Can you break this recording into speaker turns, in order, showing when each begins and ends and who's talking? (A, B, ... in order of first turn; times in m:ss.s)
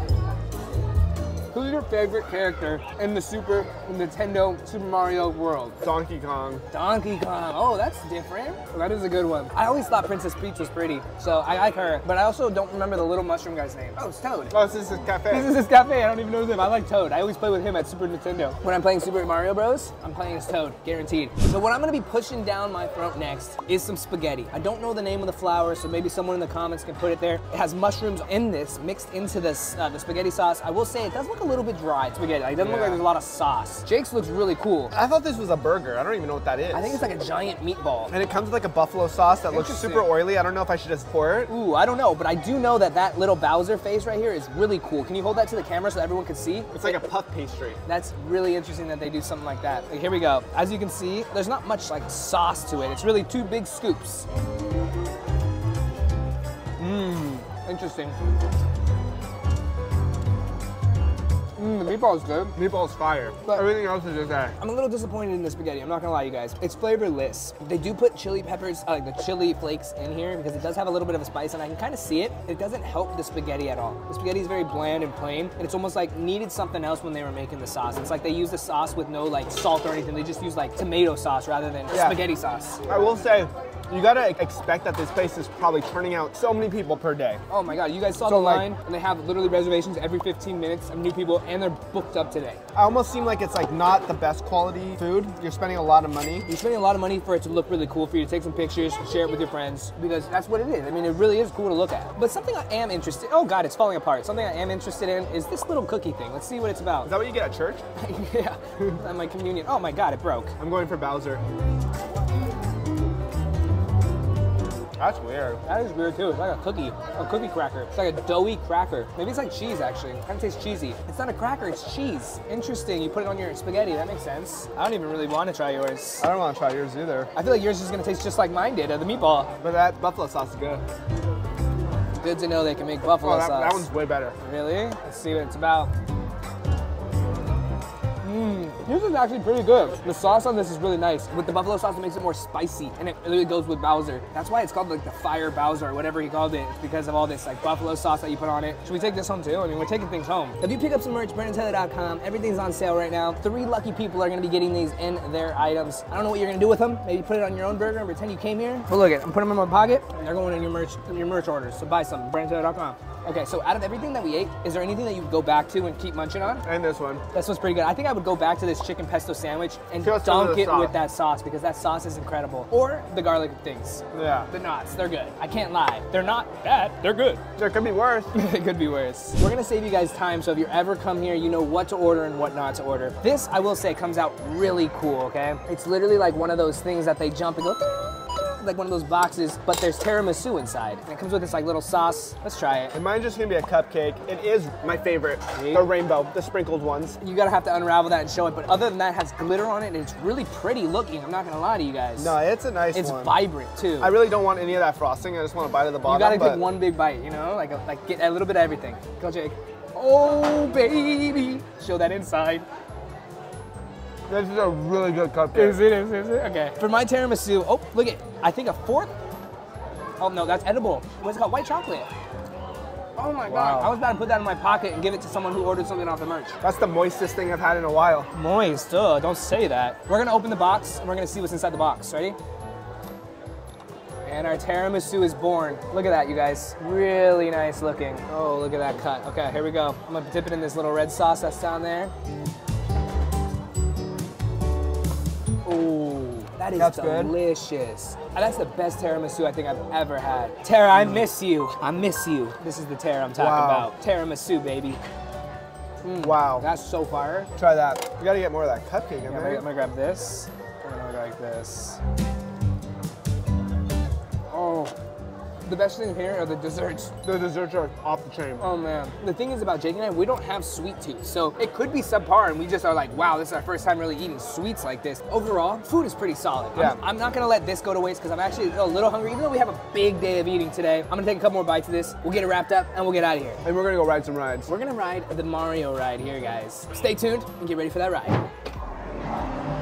0:01.5-0:05.8 A
0:05.8-0:06.6 B
0:06.7-0:14.6 A
0:14.5-0:15.5 B
0:15.3-0:34.9 A
0:32.6-0:33.0 B
0:34.9-0:37.0 B
0:36.7-0:38.1 A
0:38.1-0:41.5 B
0:39.5-0:40.1 A
0:41.5-0:47.0 A
0:46.7-0:47.8 B
0:47.8-0:54.2 A
0:56.8-0:58.2 A
1:01.6-1:02.5 A
1:02.5-1:04.6 B
1:04.6-1:22.8 A
1:21.9-1:22.2 B
1:22.9-1:27.4 B
1:27.5-1:32.6 A
1:28.2-1:28.7 B
1:32.7-1:36.5 B
1:36.5-1:47.1 A
1:47.0-1:47.8 B
1:48.0-1:50.5 A
1:50.6-1:51.4 B
1:55.0-1:55.6 B
1:55.6-2:06.2 A
2:06.2-2:07.3 B
2:07.3-2:09.5 A
2:09.6-2:10.8 B
2:12.2-2:13.9 A
2:13.1-2:14.4 B
2:14.4-2:15.9 A
2:18.2-2:46.6 A
2:46.6-2:47.2 B
2:47.3-2:57.4 A
2:50.0-2:50.9 B
2:54.1-2:54.5 B
2:57.6-2:58.3 B
2:58.3-3:12.9 A
3:12.9-3:17.2 B
3:15.6-3:15.8 A
3:17.2-3:22.3 A
3:22.2-3:23.4 B
3:22.9-3:24.1 A
3:24.0-3:26.7 B
3:26.0-3:32.6 A
3:34.3-3:35.8 B
3:35.5-3:39.1 A
3:40.2-3:42.1 A
3:43.2-3:46.6 A
3:43.4-3:43.9 B
3:46.6-3:48.3 B
3:48.3-3:52.4 A
3:54.2-4:02.1 A
4:05.6-4:15.0 A
4:06.8-4:07.3 B
4:10.9-4:11.2 B
4:13.4-4:13.9 B
4:16.0-4:17.5 A
4:16.2-4:16.6 B
4:17.6-4:19.6 B
4:19.2-4:22.0 A
4:24.5-4:24.9 A
4:25.6-4:27.2 A
4:27.2-4:28.6 B
4:28.6-4:43.6 A
4:43.6-4:44.7 B
4:44.7-4:48.4 A